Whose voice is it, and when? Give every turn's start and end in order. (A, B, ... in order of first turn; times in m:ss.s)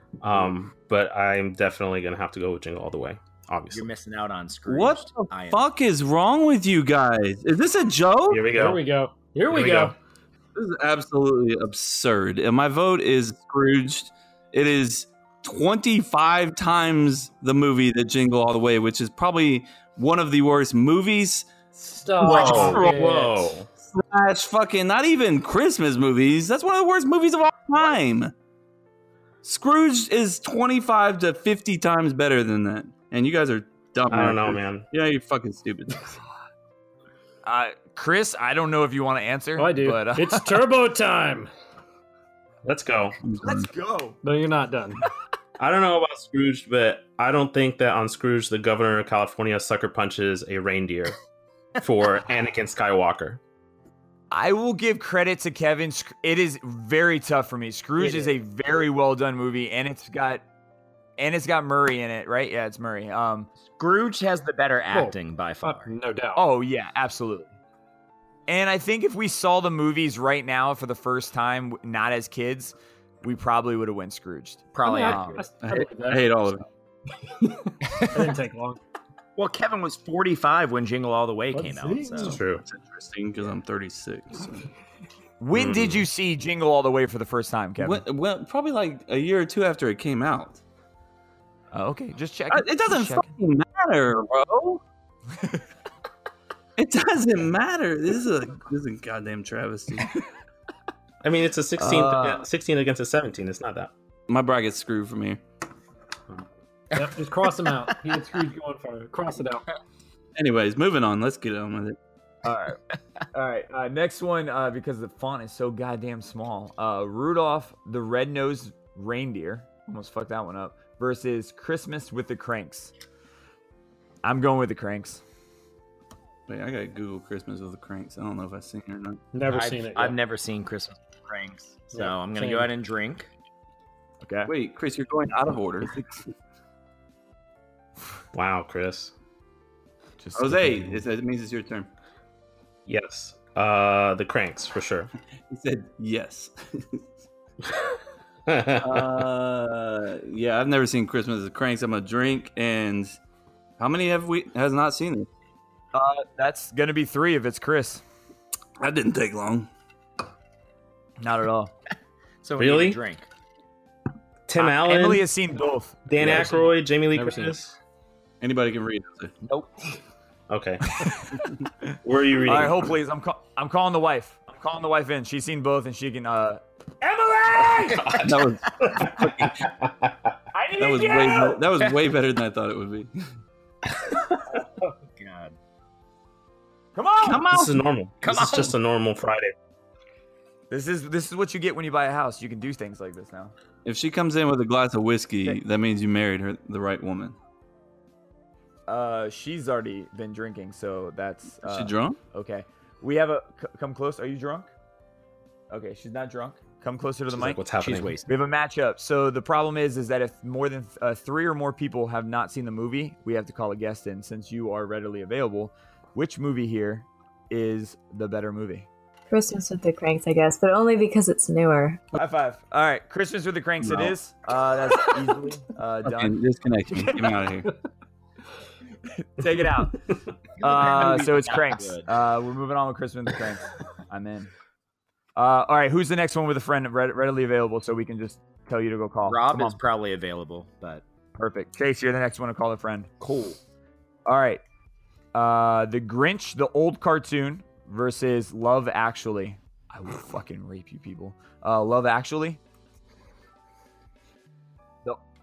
0:00.2-0:03.9 A
0:03.7-0:05.6 B
0:04.7-0:08.5 C
0:08.3-0:08.8 A
0:08.5-0:09.9 D
0:09.5-0:09.9 A
0:10.5-0:21.5 C
0:21.7-0:23.5 D
0:22.2-0:23.0 C
0:22.2-0:23.7 A
0:23.7-0:28.3 C
0:29.4-0:36.1 C
0:34.1-0:34.8 A
0:37.4-0:40.7 E
0:39.6-0:41.5 D
0:42.6-0:43.2 A
0:43.2-0:43.7 C
0:43.4-0:44.2 E
0:44.2-0:45.0 D
0:45.6-0:51.2 A
0:51.8-0:53.4 A
0:54.3-1:00.4 E
0:58.0-0:58.3 B
1:01.2-1:03.5 E
1:03.6-1:05.9 B
1:04.9-1:06.4 D
1:06.3-1:07.5 E
1:08.5-1:15.4 E
1:14.8-1:15.4 B
1:14.8-1:16.4 D
1:15.6-1:16.6 C
1:17.2-1:18.8 D
1:19.4-1:22.4 B
1:21.5-1:22.4 D
1:22.2-1:22.6 A
1:22.6-1:24.7 C
1:25.4-1:28.0 E
1:25.5-1:26.0 A
1:27.8-1:30.6 C
1:31.7-1:33.3 E
1:32.5-1:34.8 C
1:36.8-1:40.1 C
1:41.2-1:43.9 A
1:41.8-1:42.4 E
1:44.3-1:45.4 C
1:46.9-1:49.6 D
1:50.4-1:52.0 C
1:52.4-1:52.8 E
1:53.3-2:02.9 E
2:04.2-2:05.2 E
2:06.5-2:09.2 C
2:09.3-2:10.2 D
2:09.5-2:13.3 B
2:11.9-2:12.7 D
2:14.2-2:14.5 E
2:14.5-2:16.3 C
2:18.3-2:19.1 A
2:20.2-2:21.0 E
2:20.3-2:21.9 C
2:22.9-2:25.1 A
2:25.5-2:27.0 C
2:28.5-2:29.2 A
2:28.8-2:33.2 C
2:33.8-2:35.3 C
2:35.9-2:38.0 E
2:38.8-2:39.7 C
2:41.2-2:41.7 E
2:42.4-2:43.3 B
2:42.6-2:43.0 A
2:44.5-2:45.2 A
2:44.6-2:46.5 E
2:46.1-2:47.7 A
2:46.2-2:47.7 D
2:48.4-2:49.3 C
2:49.4-2:50.0 B
2:50.5-2:51.0 A
2:52.0-2:52.9 A
2:52.4-2:56.6 E
2:57.2-2:58.2 B
2:57.9-2:58.3 A
2:58.2-2:59.6 C
2:58.8-3:00.3 A
3:00.8-3:03.3 C
3:04.5-3:05.6 B
3:06.9-3:07.5 E
3:07.3-3:07.6 B
3:07.4-3:09.5 A
3:08.2-3:08.7 B
3:10.7-3:13.5 E
3:13.8-3:17.4 C
3:18.9-3:24.7 E
3:21.6-3:22.2 C
3:25.7-3:27.6 E
3:27.3-3:28.1 A
3:27.8-3:28.3 B
3:28.3-3:38.9 E
3:39.3-3:42.1 F
3:42.1-3:46.4 E
3:43.8-3:44.1 C
3:46.0-3:47.7 C
3:46.9-3:47.7 D
3:49.2-3:50.0 E
3:50.6-3:52.1 B
3:50.6-3:54.5 E
3:55.4-3:59.8 E
3:59.2-4:01.0 B
4:01.3-4:03.1 E
4:03.2-4:03.6 B
4:04.2-4:04.6 E
4:05.3-4:12.6 E